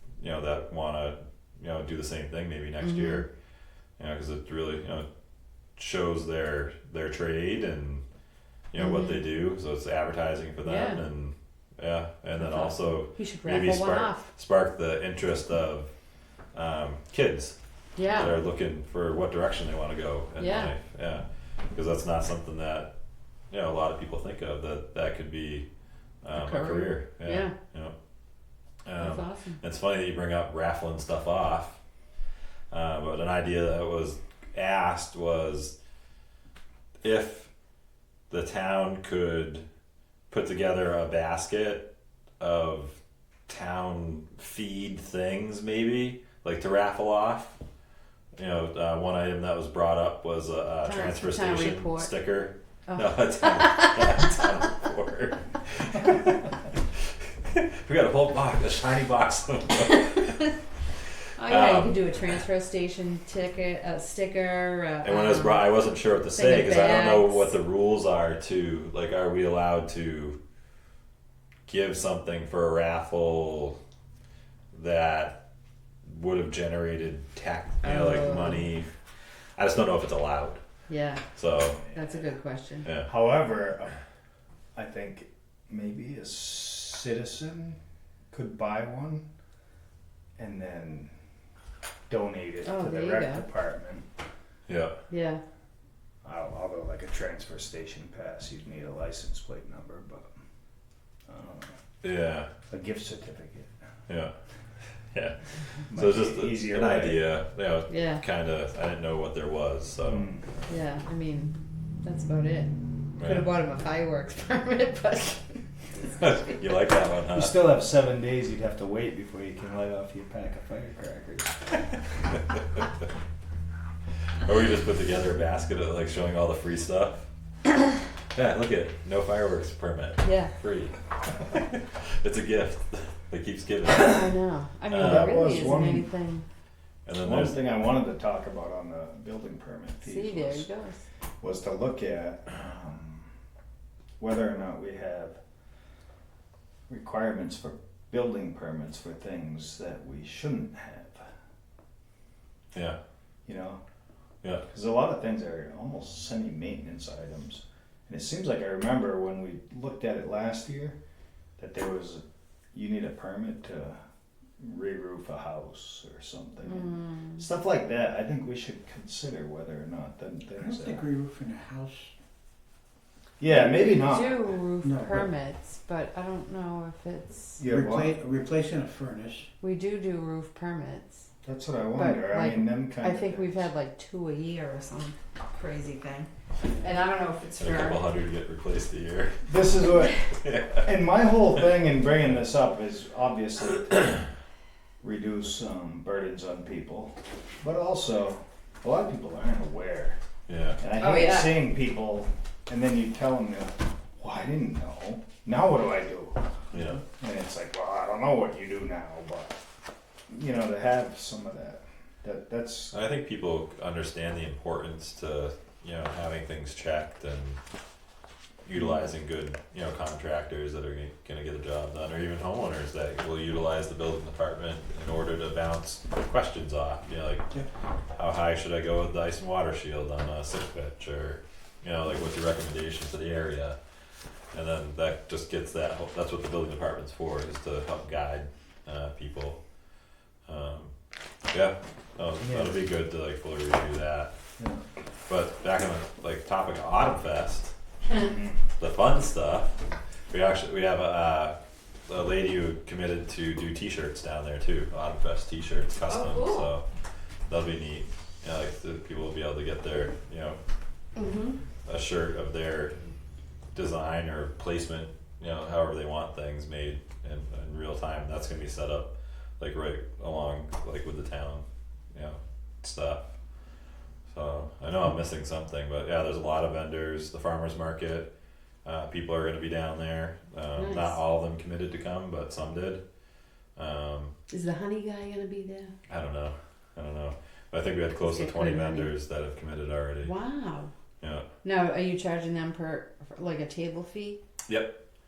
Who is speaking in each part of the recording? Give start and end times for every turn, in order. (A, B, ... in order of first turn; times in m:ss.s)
0:00.2-0:03.3 A
0:02.8-0:03.2 B
0:04.0-0:05.1 A
0:05.8-0:08.0 A
0:08.7-0:15.9 A
0:08.8-0:09.2 B
0:10.6-0:11.0 B
0:12.4-0:14.3 B
0:16.5-0:17.6 A
0:18.0-0:18.4 B
0:18.1-0:22.9 A
0:20.4-0:20.7 B
0:23.5-0:25.7 A
0:26.2-0:28.0 A
0:26.3-0:27.5 B
0:28.8-0:31.8 A
0:29.0-0:29.6 B
0:32.7-0:35.8 A
0:37.0-0:37.5 A
0:38.3-0:39.6 A
0:40.3-0:41.9 A
0:42.4-0:47.6 A
0:48.4-0:56.7 A
0:50.8-0:52.2 B
0:52.9-0:54.4 B
0:57.4-1:00.5 A
1:01.4-1:07.5 B
1:01.4-1:02.4 A
1:05.0-1:10.4 A
1:11.7-1:13.8 A
1:14.7-1:15.4 A
1:16.0-1:18.9 A
1:17.8-1:18.7 B
1:19.6-1:20.6 A
1:20.9-1:21.2 B
1:21.4-1:21.8 A
1:21.9-1:22.9 B
1:22.8-1:23.1 A
1:23.0-1:24.0 C
1:24.8-1:27.8 C
1:28.3-1:29.2 C
1:30.4-1:31.1 C
1:32.1-1:34.0 C
1:32.6-1:33.4 B
1:34.7-1:35.0 A
1:35.1-1:35.4 B
1:36.2-1:40.3 C
1:41.3-1:41.7 C
1:42.0-1:42.5 A
1:42.7-1:43.7 C
1:44.1-1:44.3 A
1:45.1-1:50.3 A
1:45.9-1:47.2 C
1:47.9-1:48.2 B
1:50.1-1:50.7 C
1:50.7-1:56.6 B
1:53.2-1:53.5 A
1:56.2-1:57.7 A
1:57.3-2:01.8 C
2:04.4-2:07.3 A
2:08.3-2:11.0 A
2:10.2-2:10.5 B
2:11.5-2:14.3 A
2:13.9-2:16.5 B
2:14.9-2:15.8 A
2:14.9-2:16.1 C
2:17.1-2:17.6 A
2:17.2-2:20.7 C
2:20.0-2:21.0 B
2:21.4-2:23.3 C
2:24.2-2:25.4 C
2:26.9-2:31.2 C
2:33.5-2:33.8 C
2:34.7-2:41.0 C
2:41.6-2:42.2 C
2:42.7-2:44.0 C
2:44.6-2:51.1 C
2:46.6-2:47.4 B
2:50.6-2:52.1 D
2:53.4-2:54.6 C
2:53.7-2:57.6 B
2:54.8-2:55.3 D
2:57.6-2:58.2 C
2:57.6-2:59.5 D
2:59.6-3:01.3 B
3:01.4-3:03.6 C
3:02.0-3:06.3 B
3:06.8-3:08.0 B
3:07.6-3:09.5 A
3:09.4-3:14.3 C
3:10.4-3:10.9 A
3:15.0-3:20.2 C
3:20.5-3:20.8 A
3:20.8-3:26.4 C
3:21.0-3:21.7 B
3:26.7-3:27.0 A
3:27.0-3:29.6 C
3:30.3-3:32.9 C
3:32.9-3:37.6 A
3:38.6-3:47.5 A
3:48.2-3:53.8 A
3:54.5-3:59.6 A
4:00.5-4:00.9 A
4:01.5-4:04.3 A
4:02.4-4:02.8 C
4:05.3-4:07.7 A
4:08.1-4:08.6 C
4:08.8-4:09.7 A
4:10.3-4:11.6 A
4:12.1-4:16.8 A
4:16.1-4:16.7 B
4:17.5-4:20.6 A
4:21.2-4:21.6 B
4:21.9-4:23.1 A
4:23.7-4:33.3 A
4:34.3-4:38.3 A
4:38.8-4:43.0 A
4:40.8-4:41.2 B
4:43.8-4:44.3 A
4:44.5-4:45.9 B
4:46.1-4:50.3 A
4:48.2-4:49.1 B
4:50.2-4:50.9 B
4:51.2-4:51.5 A
4:51.6-4:54.4 B
4:54.7-4:55.0 A